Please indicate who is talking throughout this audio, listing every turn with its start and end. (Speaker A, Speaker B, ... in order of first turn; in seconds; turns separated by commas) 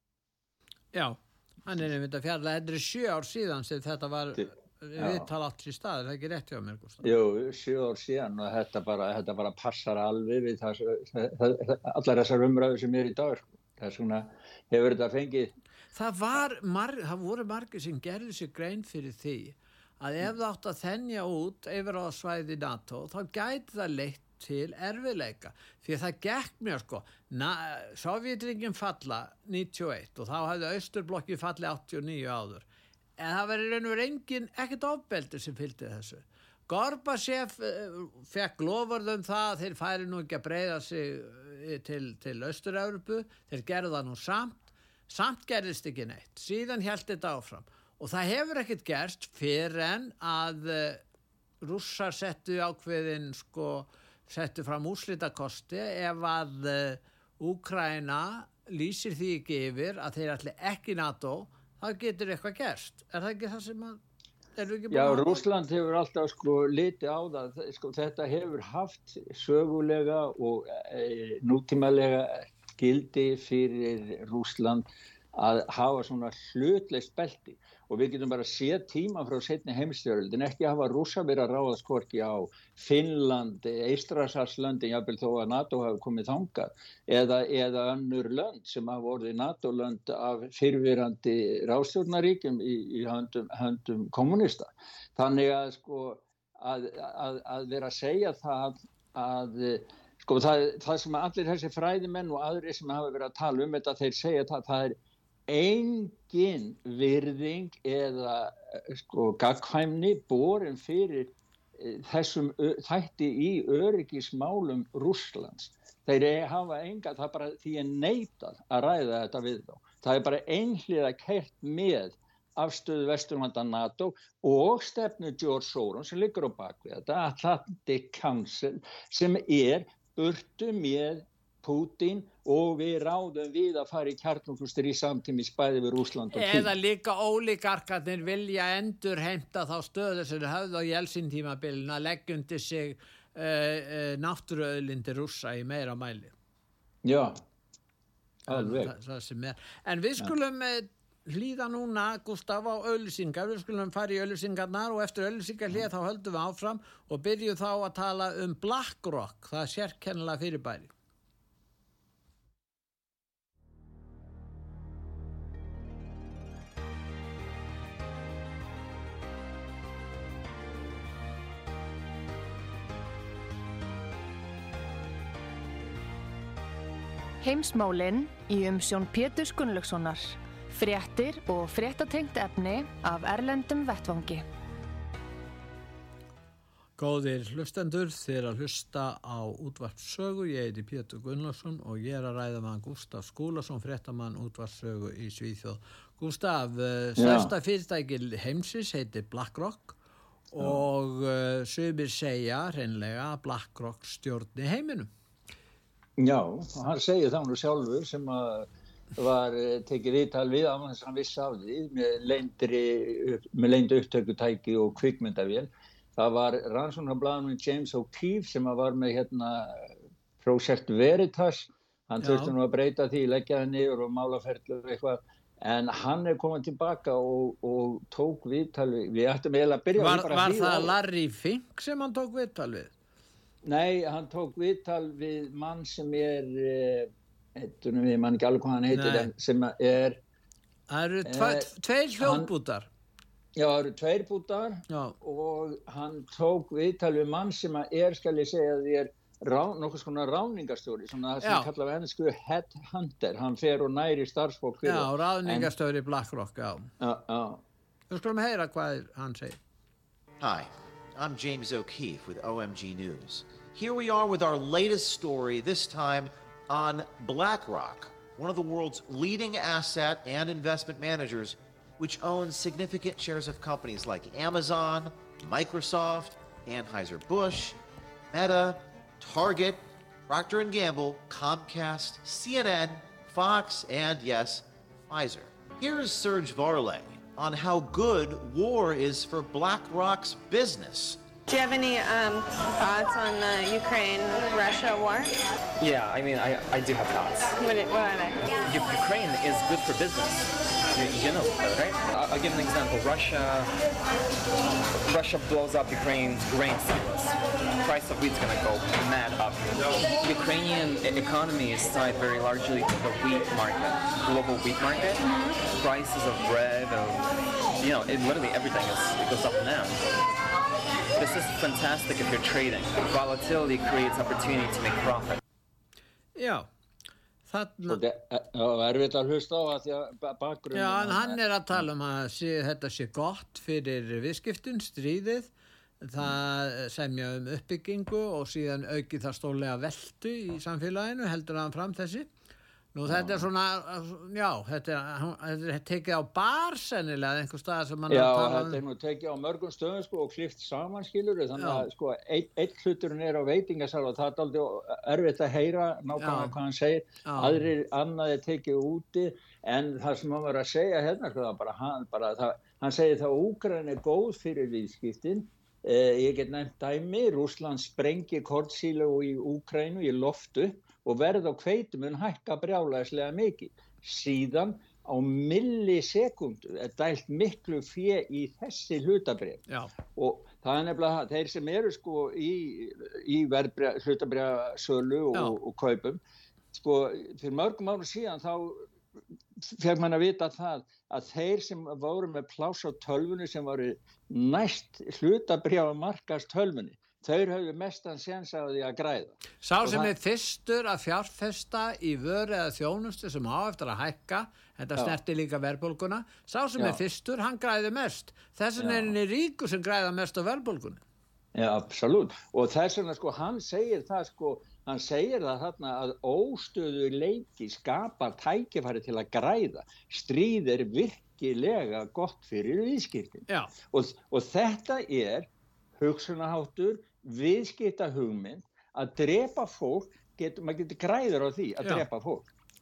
Speaker A: 0.9-7.1, Speaker B: 4.3-5.3, Speaker B: 7.0-15.5, Speaker A: 15.9-32.6, Speaker A: 33.2-51.0, Speaker A: 51.6-64.0, Speaker A: 64.5-65.4, Speaker B: 64.9-105.0, Speaker B: 105.5-136.7, Speaker A: 136.3-146.3, Speaker B: 147.0-147.4, Speaker B: 148.5-148.9, Speaker A: 148.5-160.9, Speaker C: 177.4-184.4, Speaker A: 187.0-199.9, Speaker B: 197.2-197.5, Speaker A: 200.5-205.1, Speaker B: 206.2-230.9, Speaker A: 222.2-222.5, Speaker A: 230.0-232.9, Speaker B: 233.6-240.2, Speaker A: 238.9-239.3, Speaker A: 240.9-242.9, Speaker B: 241.2-242.5, Speaker B: 243.6-255.7, Speaker A: 244.9-245.2, Speaker A: 251.4-251.7, Speaker A: 254.8-256.9, Speaker B: 257.0-257.6, Speaker A: 258.1-259.6, Speaker D: 260.4-277.8, Speaker D: 278.3-291.2, Speaker E: 291.5-295.3, Speaker F: 295.8-297.5, Speaker E: 297.6-298.4, Speaker F: 298.6-303.7, Speaker F: 305.0-320.0, Speaker F: 321.1-325.4, Speaker A: 326.4-326.7, Speaker A: 327.5-328.0, Speaker B: 327.8-331.4, Speaker A: 330.7-342.3, Speaker A: 342.9-348.8, Speaker B: 343.1-343.5, Speaker B: 348.1-386.2, Speaker A: 351.6-351.9, Speaker A: 356.2-356.5, Speaker A: 357.2-357.6, Speaker B: 386.7-388.9, Speaker B: 389.6-400.1, Speaker A: 399.6-411.0, Speaker B: 408.8-409.1, Speaker B: 411.5-432.5